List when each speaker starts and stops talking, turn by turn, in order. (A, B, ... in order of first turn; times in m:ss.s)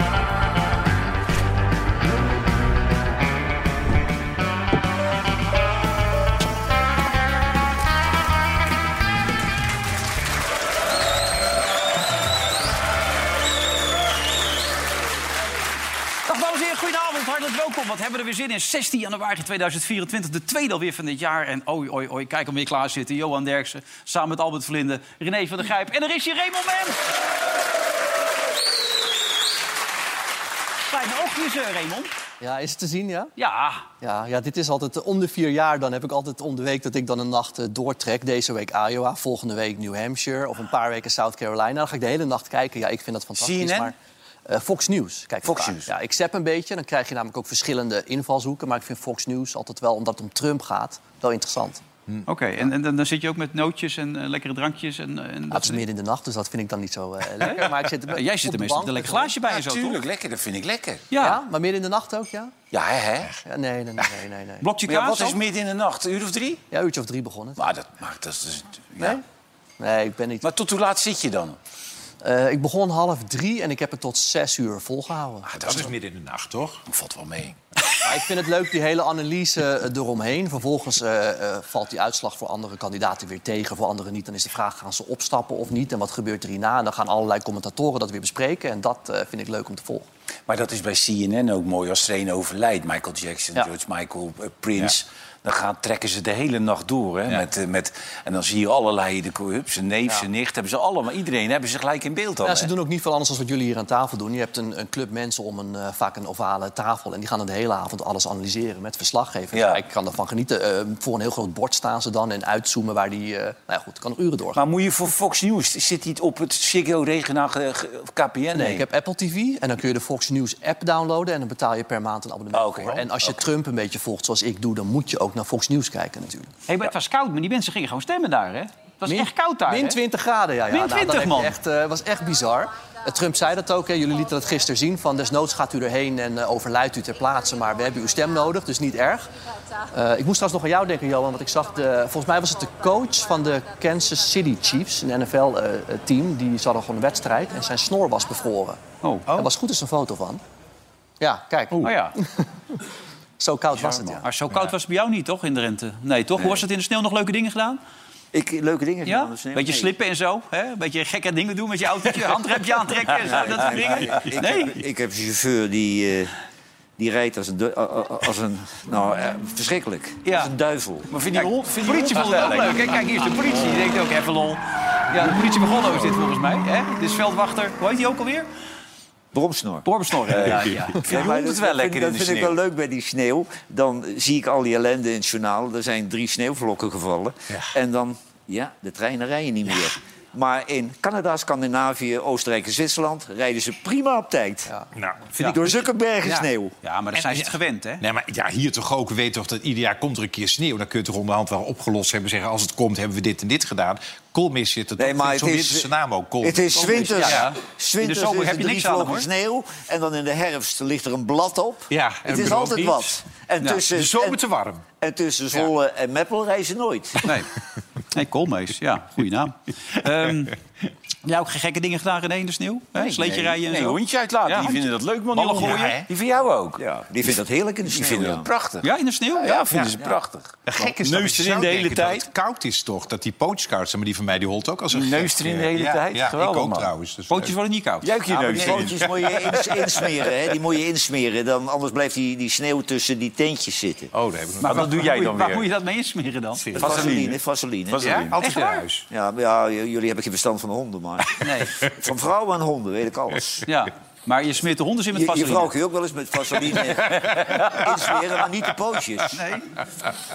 0:16.3-0:27.0 A
0:30.9-0:32.1 A
0:32.4-0:33.3 B
0:33.4-0:33.9 A
0:34.0-0:44.0 B
0:43.4-0:43.9 C
0:44.5-0:51.8 B
0:45.4-0:45.9 C
0:52.3-0:55.8 A
0:55.5-0:59.3 B
0:57.4-1:00.0 A
0:59.5-1:01.0 C
1:01.1-1:01.4 A
1:01.2-1:02.5 B
1:02.7-1:03.3 C
1:03.4-1:04.7 B
1:04.6-1:05.4 A
1:04.8-1:06.6 C
1:06.7-1:07.6 B
1:07.6-1:09.2 C
1:09.8-1:10.4 B
1:10.4-1:11.6 C
1:12.2-1:15.5 B
1:15.4-1:15.9 C
1:15.6-1:16.8 D
1:16.9-1:17.6 C
1:18.0-1:30.1 B
1:30.5-1:42.7 C
1:42.4-1:54.6 B
1:49.5-1:49.8 C
1:54.5-1:58.8 C
1:58.5-2:06.5 B
2:02.5-2:03.4 C
2:06.7-2:10.0 A
2:09.1-2:19.3 B
2:10.7-2:11.6 A
2:19.9-2:30.4 B
2:29.0-2:29.5 A
2:31.2-2:32.4 B
2:31.8-2:32.2 A
2:33.4-2:34.2 B
2:33.8-2:34.2 C
2:34.2-2:37.8 A
2:38.3-2:39.9 E
2:39.0-2:44.8 A
2:43.2-2:46.3 E
2:47.0-2:51.1 E
2:50.2-2:50.5 A
2:51.1-2:53.0 C
2:51.3-2:58.5 A
2:59.3-2:59.8 E
2:59.8-3:01.0 A
3:00.3-3:02.6 C
3:00.5-3:00.9 D
3:01.1-3:14.7 E
3:14.9-3:15.8 D
3:15.4-3:16.7 E
3:16.3-3:18.0 A
3:17.1-3:27.5 D
3:25.0-3:25.9 E
3:26.4-3:34.4 E
3:27.1-3:29.2 A
3:31.9-3:33.2 D
3:33.9-3:34.8 D
3:35.0-3:37.3 E
3:37.2-3:37.5 A
3:38.1-3:40.6 A
3:41.2-3:46.0 A
3:42.9-3:46.8 C
3:45.5-3:46.1 D
3:46.8-3:48.5 E
3:47.9-3:52.3 C
3:48.8-3:49.6 A
3:49.7-3:50.0 D
3:50.6-3:57.6 D
3:54.9-3:56.9 C
3:57.3-3:58.1 A
3:58.0-3:59.9 C
3:58.3-4:04.1 E
3:58.7-3:58.9 D
4:04.1-4:05.3 D
4:04.6-4:05.7 C
4:04.6-4:06.9 A
4:06.6-4:07.3 D
4:06.7-4:08.0 E
4:06.8-4:07.4 C
4:07.9-4:08.3 C
4:08.0-4:09.0 D
4:08.4-4:08.9 A
4:09.1-4:13.6 E
4:11.4-4:11.8 A
4:13.7-4:15.7 A
4:15.1-4:19.4 E
4:19.3-4:19.7 A